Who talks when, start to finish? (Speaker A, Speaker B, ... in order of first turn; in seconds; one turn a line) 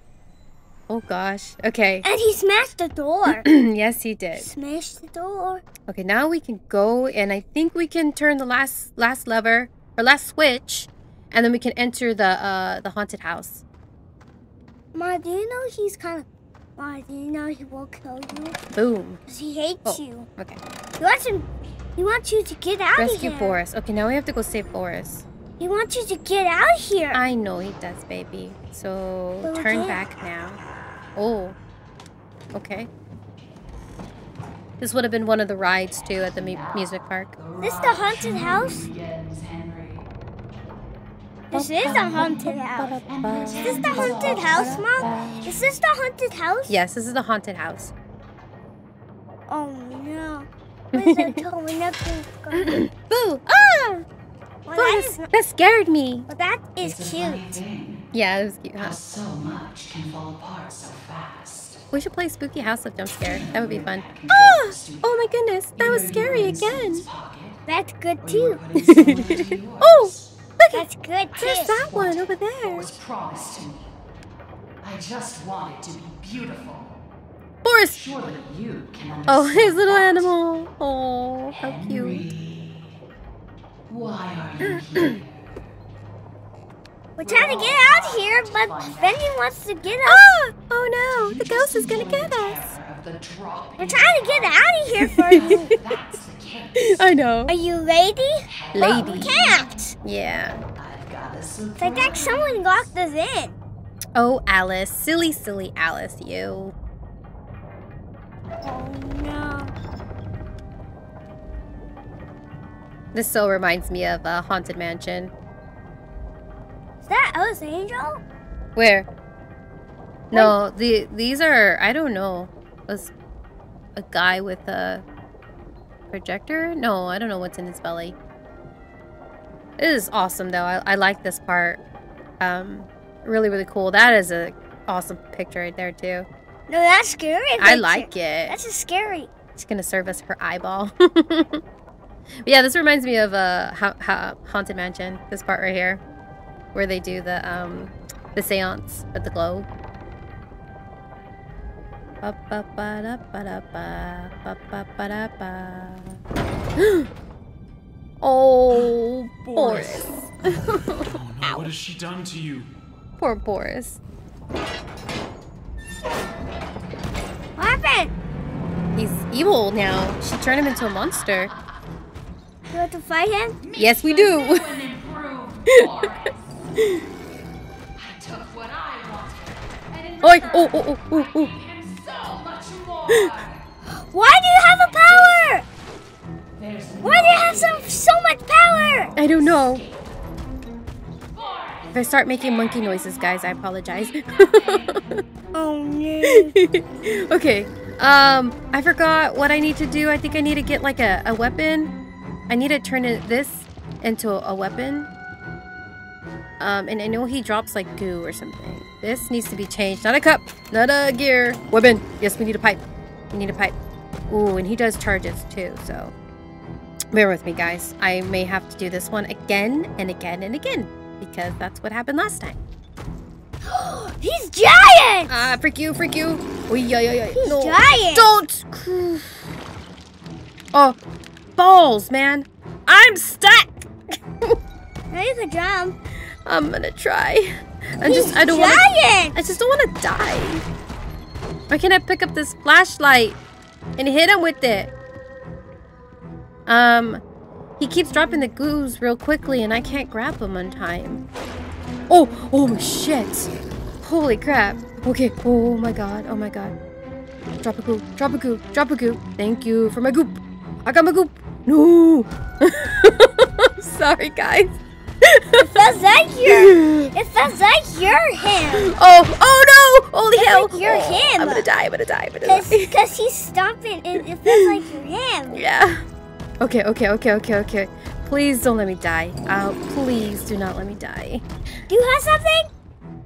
Speaker A: 0.9-2.0
Speaker B: 2.0-3.5
Speaker A: 3.3-4.5
Speaker B: 4.3-5.6
Speaker A: 5.9-13.6
Speaker B: 14.9-18.6
Speaker A: 18.7-19.2
Speaker B: 19.3-20.3
Speaker A: 19.8-20.6
Speaker B: 21.0-23.6
Speaker A: 22.9-25.2
Speaker B: 25.6-27.2
Speaker A: 27.1-30.6
Speaker B: 29.4-30.0
Speaker A: 31.1-31.6
Speaker A: 32.5-32.9
Speaker A: 34.8-37.4
Speaker C: 35.9-40.0
Speaker B: 37.6-38.9
Speaker B: 41.5-43.0
Speaker A: 41.5-45.5
Speaker C: 41.8-42.5
Speaker C: 43.0-45.7
Speaker B: 43.5-46.8
Speaker A: 46.7-47.9
Speaker B: 49.5-52.8
Speaker A: 50.9-51.4
Speaker A: 52.5-53.6
Speaker B: 53.5-54.0
Speaker B: 54.6-55.3
Speaker A: 54.7-56.3
Speaker B: 56.3-57.6
Speaker C: 56.8-58.0
Speaker A: 58.1-59.0
Speaker C: 58.8-61.8
Speaker A: 61.9-67.0
Speaker C: 63.2-65.2
Speaker C: 65.8-67.6
Speaker B: 67.7-68.6
Speaker C: 68.2-70.3
Speaker A: 68.8-70.8
Speaker B: 70.7-71.8
Speaker C: 71.3-73.9
Speaker A: 71.4-72.9
Speaker C: 74.8-76.9
Speaker A: 77.6-78.0
Speaker C: 77.9-80.3
Speaker A: 79.3-82.2
Speaker C: 81.5-82.9
Speaker C: 83.9-85.2
Speaker A: 84.8-85.2
Speaker B: 87.2-90.3
Speaker C: 87.2-89.3
Speaker A: 90.0-92.7
Speaker C: 91.1-97.0
Speaker B: 93.8-95.7
Speaker A: 95.0-95.6
Speaker A: 96.8-97.5
Speaker B: 97.5-99.9
Speaker C: 98.4-99.8
Speaker A: 98.7-99.3
Speaker A: 100.0-100.6
Speaker C: 100.8-102.9
Speaker B: 101.8-103.5
Speaker A: 104.2-106.7
Speaker B: 108.6-109.7
Speaker A: 113.1-115.3
Speaker B: 117.0-118.2
Speaker A: 118.8-119.1
Speaker A: 120.3-123.1
Speaker A: 124.0-125.0
Speaker A: 126.1-128.1
Speaker A: 129.8-131.8
Speaker A: 132.4-136.2
Speaker B: 136.7-139.3
Speaker A: 137.6-138.6
Speaker A: 139.5-141.6
Speaker A: 142.4-146.0
Speaker A: 146.7-149.7
Speaker A: 152.2-156.2
Speaker A: 156.8-157.1
Speaker A: 158.2-161.0
Speaker D: 159.4-160.2
Speaker D: 160.7-162.7
Speaker A: 163.2-164.0
Speaker B: 167.6-168.1
Speaker A: 168.9-171.5
Speaker B: 172.7-173.6
Speaker C: 173.6-176.7
Speaker A: 173.8-174.7
Speaker C: 177.9-183.6
Speaker A: 180.2-181.5
Speaker A: 183.1-183.3
Speaker B: 184.0-185.6
Speaker C: 185.1-185.4
Speaker C: 186.6-188.0
Speaker B: 187.0-189.1
Speaker C: 188.8-190.0
Speaker A: 189.1-189.8
Speaker A: 191.9-195.2
Speaker B: 195.5-196.5
Speaker A: 196.2-201.9
Speaker A: 202.5-205.1
Speaker A: 206.6-213.7
Speaker A: 214.3-216.1
Speaker A: 217.1-222.6
Speaker B: 223.6-225.5
Speaker A: 225.3-229.5
Speaker B: 227.3-228.3
Speaker A: 231.6-233.9
Speaker B: 235.1-236.0
Speaker A: 236.4-240.6
Speaker B: 238.0-239.4
Speaker A: 241.7-243.4
Speaker A: 244.0-244.9
Speaker A: 246.7-247.2
Speaker A: 247.8-251.2
Speaker A: 252.1-253.5
Speaker A: 254.0-256.7
Speaker A: 257.6-265.6
Speaker B: 265.6-268.9
Speaker A: 266.4-267.1
Speaker A: 268.6-272.9
Speaker B: 270.3-271.6
Speaker B: 272.4-275.6
Speaker A: 275.5-276.0
Speaker A: 276.6-281.4
Speaker B: 281.9-282.7